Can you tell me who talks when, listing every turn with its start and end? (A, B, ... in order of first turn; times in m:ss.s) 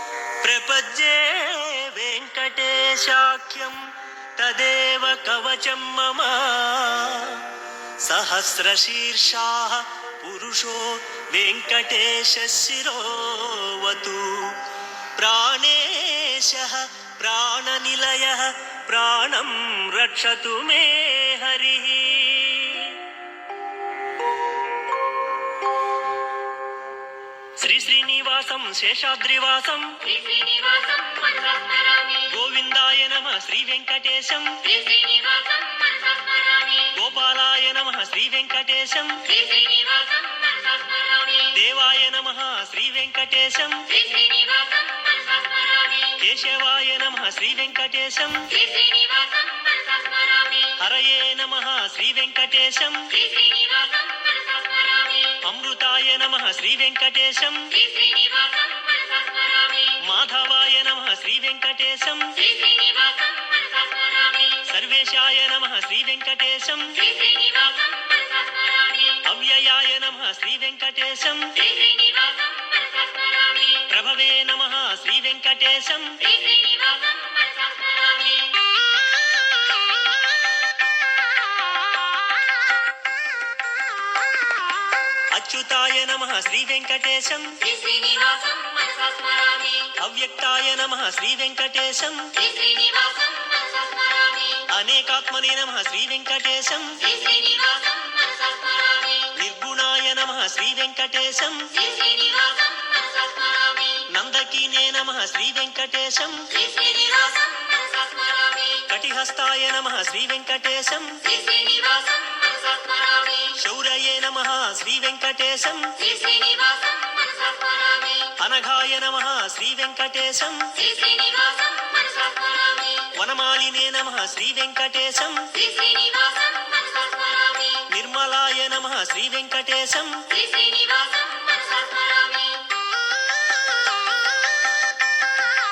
0:00.4-0:07.4 A
0:08.0-0:14.6 A
0:15.2-0:23.0 A
0:27.6-0:30.1 A
0:30.2-0:32.0 B
0:32.2-0:34.8 A
0:34.9-0:36.7 B
0:36.8-0:39.4 A
0:39.5-0:41.3 B
0:41.4-0:44.0 A
0:44.2-0:45.9 B
0:46.1-0:48.6 A
0:48.8-0:50.5 B
0:50.7-0:53.3 A
0:53.4-0:55.1 B
0:55.3-0:57.9 A
0:58.0-0:59.7 B
0:59.9-1:02.6 A
1:02.6-1:04.4 B
1:04.6-1:07.1 A
1:07.3-1:08.9 B
1:09.2-1:11.8 A
1:11.8-1:13.6 B
1:13.8-1:16.3 A
1:16.5-1:18.4 B
1:25.3-1:27.8 A
1:27.8-1:29.8 B
1:29.8-1:32.5 A
1:32.6-1:34.4 B
1:34.6-1:37.1 A
1:37.3-1:39.1 B
1:39.3-1:41.9 A
1:42.0-1:43.8 B
1:44.0-1:46.7 A
1:46.8-1:48.6 B
1:48.8-1:51.4 A
1:51.5-1:53.3 B
1:53.4-1:56.2 A
1:56.2-1:58.2 B
1:58.3-2:01.0 A
2:01.0-2:02.9 B
2:03.1-2:05.7 A
2:05.8-2:07.6 B
2:07.8-2:10.4 A
2:10.5-2:12.6 B